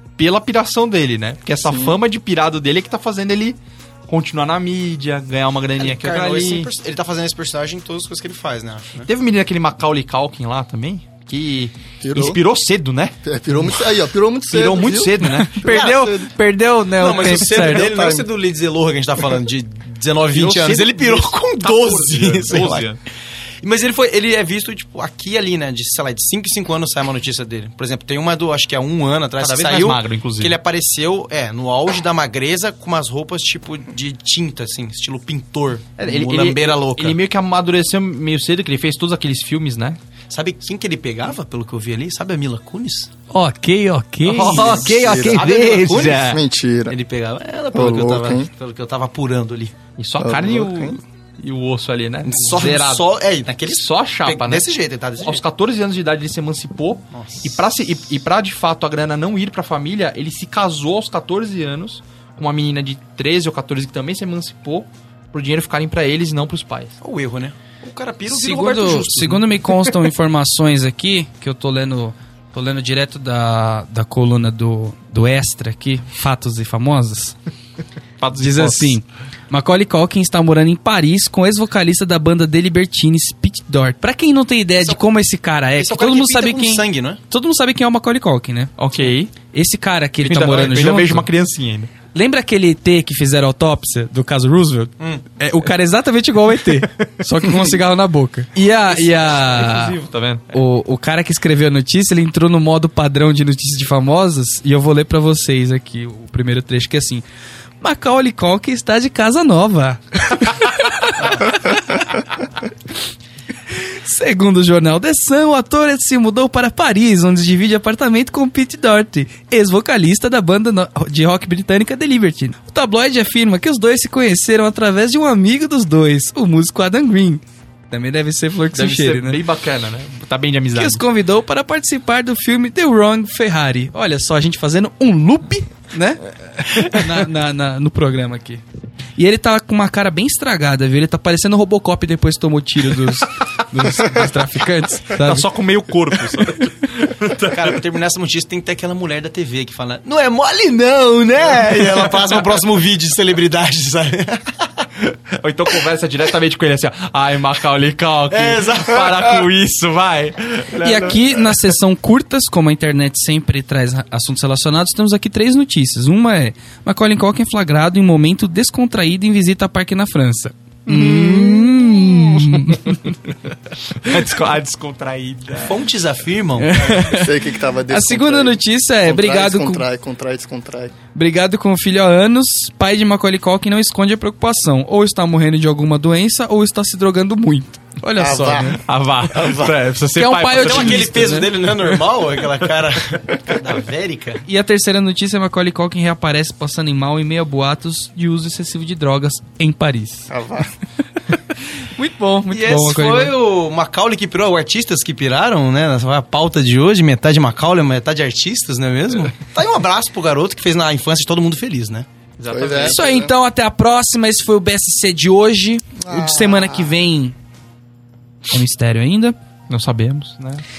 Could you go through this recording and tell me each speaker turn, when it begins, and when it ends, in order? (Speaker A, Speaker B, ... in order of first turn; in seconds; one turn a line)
Speaker A: 0.2-6.7
Speaker B: 1.6-2.0
Speaker C: 5.8-9.1
Speaker A: 9.0-13.7
Speaker B: 12.0-12.4
Speaker B: 13.2-16.3
Speaker A: 14.5-15.6
Speaker D: 15.4-18.0
Speaker C: 15.6-16.1
Speaker C: 16.9-22.9
Speaker B: 17.5-18.3
Speaker A: 20.3-23.0
Speaker C: 23.6-37.2
Speaker A: 29.4-30.6
Speaker A: 36.0-40.0
Speaker C: 40.3-43.1
Speaker D: 43.3-44.8
Speaker A: 44.2-46.4
Speaker C: 44.3-46.3
Speaker B: 44.4-45.5
Speaker B: 46.0-47.0
Speaker C: 46.9-49.8
Speaker B: 47.7-48.5
Speaker A: 50.0-53.1
Speaker B: 50.2-51.0
Speaker C: 52.2-55.4
Speaker A: 53.6-67.0
Speaker C: 57.1-57.6
Speaker C: 67.0-69.5
Speaker D: 68.3-77.4
Speaker A: 78.2-79.0
Speaker D: 78.3-88.7
Speaker C: 84.7-85.0
Speaker C: 85.8-87.2
Speaker A: 88.8-89.3
Speaker D: 89.5-91.3
Speaker A: 90.2-91.9
Speaker D: 92.1-100.0
Speaker C: 95.0-95.2
Speaker A: 98.6-100.5
Speaker D: 100.5-107.2
Speaker D: 107.8-112.2
Speaker D: 113.7-129.4
Speaker A: 128.7-131.0
Speaker D: 130.7-138.6
Speaker D: 139.2-145.5
Speaker A: 143.0-143.2
Speaker A: 143.8-144.3
Speaker A: 145.1-147.8
Speaker C: 147.4-154.9
Speaker A: 151.5-152.6
Speaker A: 155.0-161.5
Speaker C: 158.3-159.5
Speaker D: 160.8-173.1
Speaker A: 170.9-173.3
Speaker A: 173.9-175.9
Speaker C: 175.6-176.9
Speaker D: 176.6-179.8
Speaker B: 176.9-180.9
Speaker D: 181.1-188.8
Speaker C: 188.2-188.7
Speaker B: 188.2-188.8
Speaker A: 188.8-192.0
Speaker C: 189.4-189.7
Speaker D: 190.1-191.5
Speaker C: 190.5-194.4
Speaker D: 194.4-200.3
Speaker B: 200.3-200.7
Speaker D: 201.3-203.3
Speaker C: 202.5-212.1
Speaker A: 212.4-213.0
Speaker B: 212.5-213.3
Speaker D: 212.8-217.3
Speaker B: 216.0-217.1
Speaker D: 218.5-219.3
Speaker A: 219.7-220.6